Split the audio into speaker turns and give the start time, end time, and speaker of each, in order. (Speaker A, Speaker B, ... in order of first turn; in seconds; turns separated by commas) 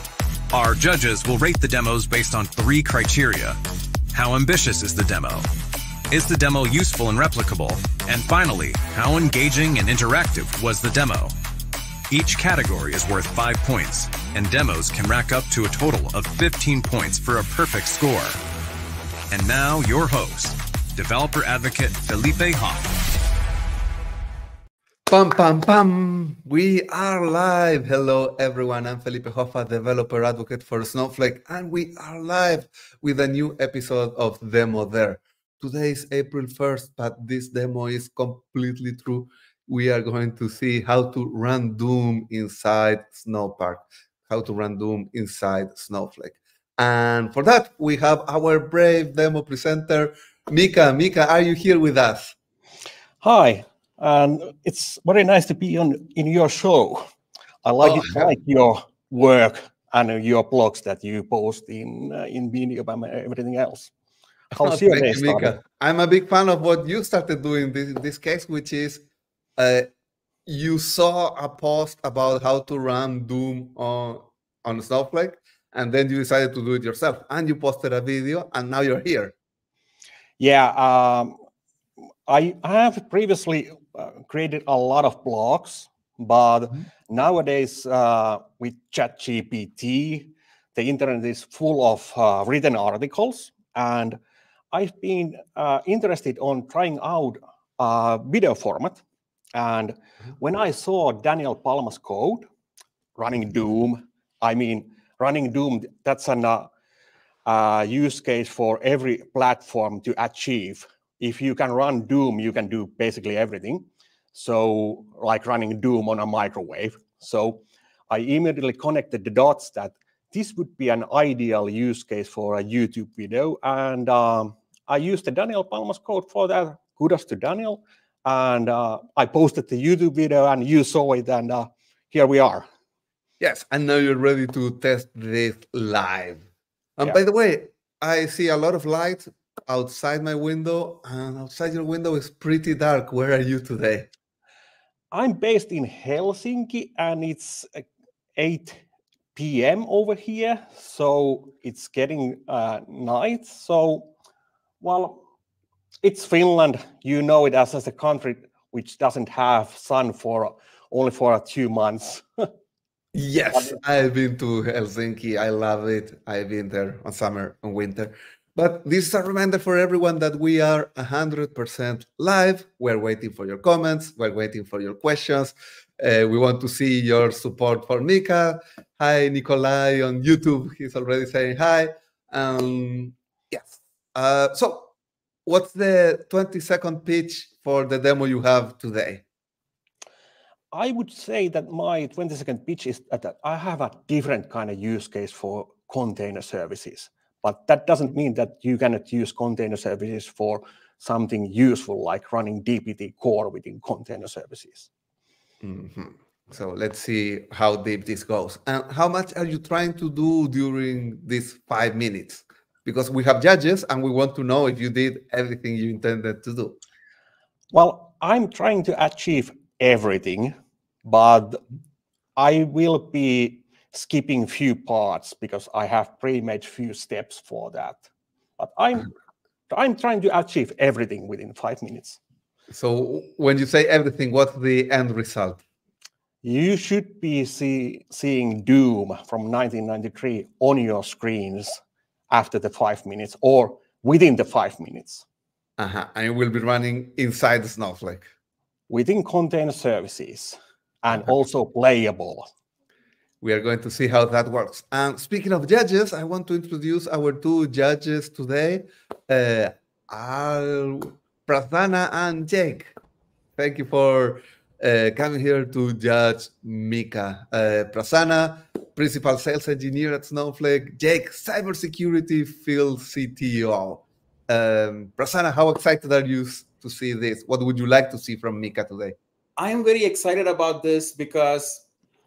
Speaker A: 0.5-3.6, Speaker A: 4.1-5.5, Speaker A: 6.1-11.3, Speaker A: 12.1-18.4, Speaker A: 19.3-22.9, Speaker B: 25.1-52.4, Speaker C: 53.2-57.1, Speaker C: 57.6-63.9, Speaker B: 57.8-58.3, Speaker C: 64.5-65.6, Speaker B: 64.5-69.0, Speaker B: 69.6-69.9, Speaker B: 70.5-79.3, Speaker C: 80.4-81.4, Speaker C: 82.3-94.2, Speaker C: 94.7-99.0, Speaker C: 99.5-102.5, Speaker C: 103.2-106.7, Speaker C: 107.5-132.7, Speaker B: 133.4-136.4, Speaker B: 137.0-144.1, Speaker C: 145.1-147.8, Speaker C: 148.4-148.8, Speaker C: 149.3-154.1, Speaker C: 154.8-155.2, Speaker C: 156.0-162.5, Speaker B: 163.1-184.9, Speaker B: 185.5-189.2, Speaker C: 190.7-204.9, Speaker B: 205.6-216.8, Speaker C: 217.7-221.6, Speaker C: 222.4-228.0, Speaker C: 228.6-229.1, Speaker C: 229.7-232.2, Speaker B: 232.7-235.6, Speaker C: 236.4-245.2, Speaker B: 245.8-248.2, Speaker C: 248.9-252.5, Speaker B: 253.4-262.9, Speaker B: 263.6-279.2, Speaker D: 279.6-281.9